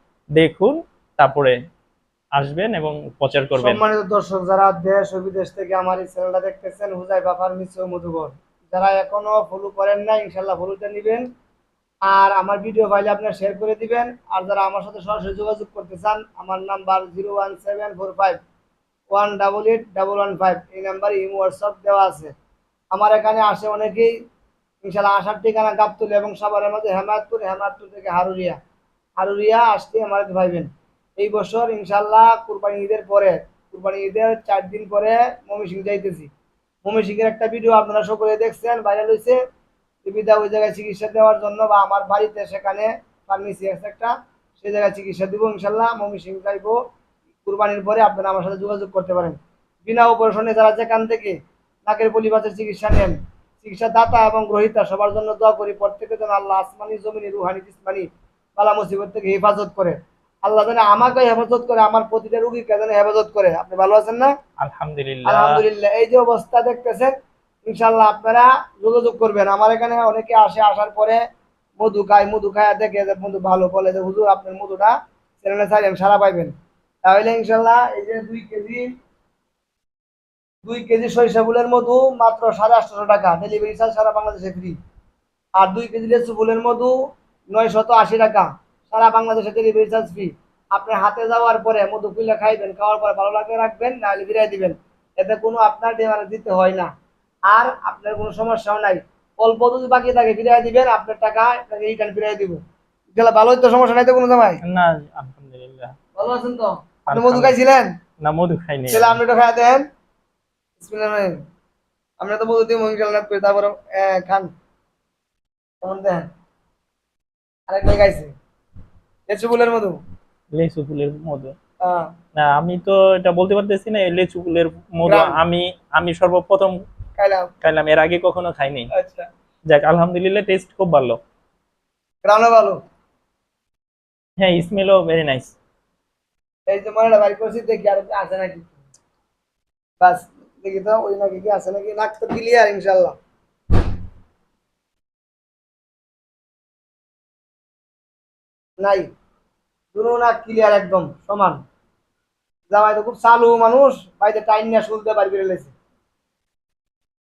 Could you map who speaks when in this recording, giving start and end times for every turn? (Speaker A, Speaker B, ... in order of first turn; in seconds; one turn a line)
Speaker A: 0.4-1.6
Speaker A: 2.4-3.8
Speaker B: 3.6-11.2
Speaker B: 12.1-18.4
Speaker B: 19.1-22.3
Speaker B: 22.9-24.1
Speaker B: 24.8-28.6
Speaker B: 29.2-36.3
Speaker B: 36.8-39.4
Speaker B: 40.0-46.8
Speaker B: 47.5-58.1
Speaker B: 58.6-64.3
Speaker A: 64.6-65.6
Speaker B: 65.2-67.1
Speaker B: 67.7-71.2
Speaker B: 71.8-78.9
Speaker B: 80.6-84.8
Speaker B: 85.6-87.0
Speaker B: 87.5-96.9
Speaker B: 97.5-102.6
Speaker B: 103.2-104.6
Speaker A: 104.6-105.9
Speaker B: 106.2-107.9
Speaker A: 107.1-107.6
Speaker A: 108.2-109.2
Speaker B: 108.9-109.8
Speaker B: 110.8-111.4
Speaker B: 112.2-114.5
Speaker B: 115.8-116.3
Speaker B: 117.7-118.3
Speaker B: 119.3-120.0
Speaker A: 120.6-121.5
Speaker A: 122.3-126.8
Speaker B: 125.0-125.4
Speaker B: 127.2-127.5
Speaker A: 127.6-128.9
Speaker B: 128.9-129.3
Speaker A: 129.7-131.2
Speaker B: 132.2-132.8
Speaker A: 134.4-135.6
Speaker B: 136.7-138.8
Speaker B: 140.0-143.2
Speaker B: 148.8-149.1
Speaker B: 149.9-151.6
Speaker B: 152.7-155.7